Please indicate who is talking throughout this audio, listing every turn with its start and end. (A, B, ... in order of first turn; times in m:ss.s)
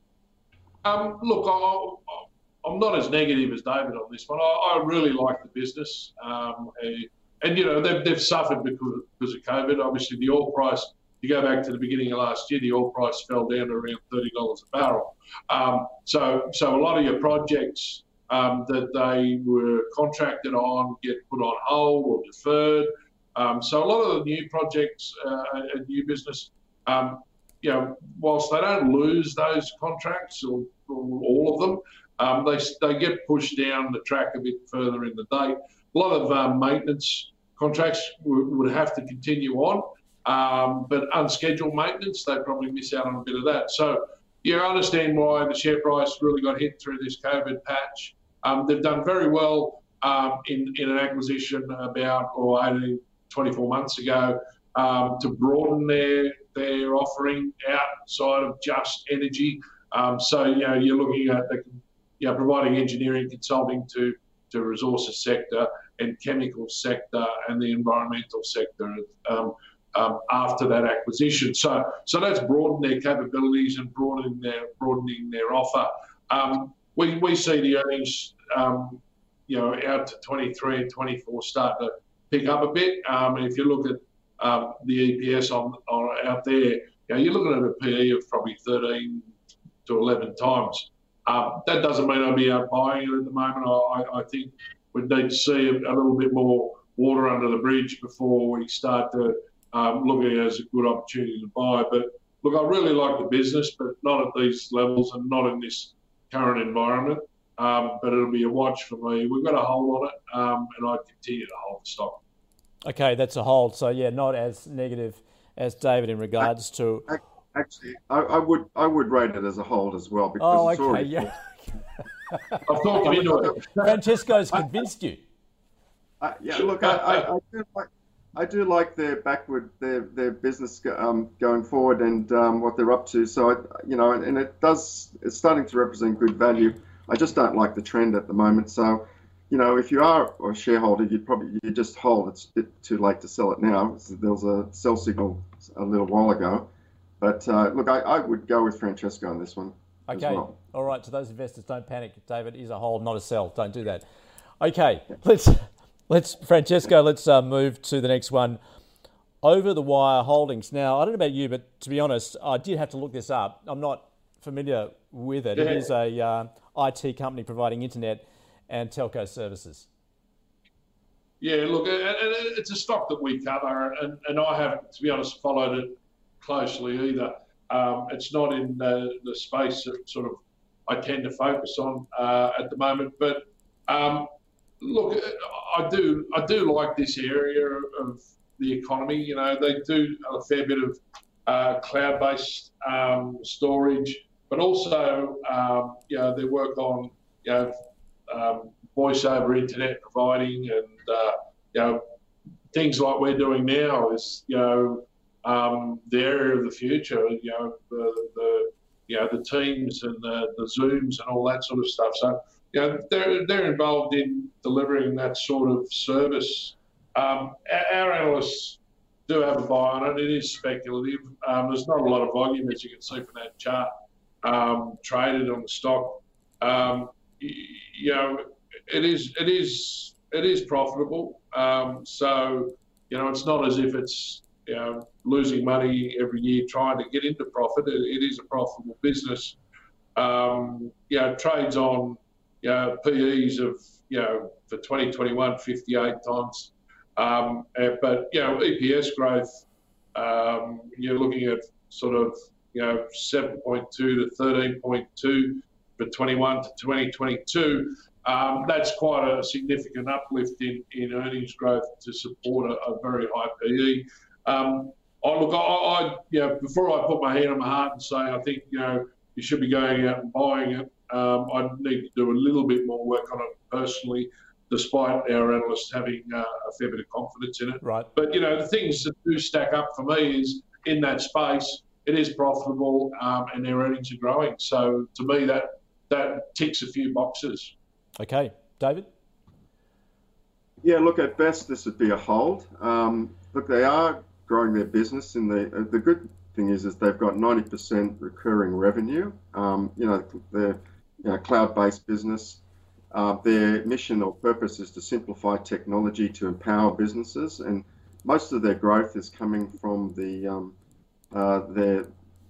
0:00.8-1:29.3 A
1:29.9-1:52.2 A
1:52.8-1:57.1 B
1:57.1-2:01.3 C
2:00.4-2:01.8 B
2:02.3-2:02.6 B
2:02.7-2:04.0 A
2:03.0-2:03.5 C
2:03.8-2:05.2 B
2:06.2-2:26.7 C
2:06.8-2:07.2 A
2:27.2-2:30.6 C
2:30.1-2:34.0 B
2:34.6-2:38.6 B
2:39.4-2:49.9 B
2:45.6-2:45.8 A
2:51.4-3:17.7 A
3:18.3-3:22.0 A
3:22.7-3:43.9 A
3:44.4-3:59.6 A
4:00.2-4:09.6 A
4:10.2-4:47.7 A
4:37.8-4:38.1 B
4:48.2-4:49.1 B
4:50.8-5:10.8 C
5:11.3-5:12.1 C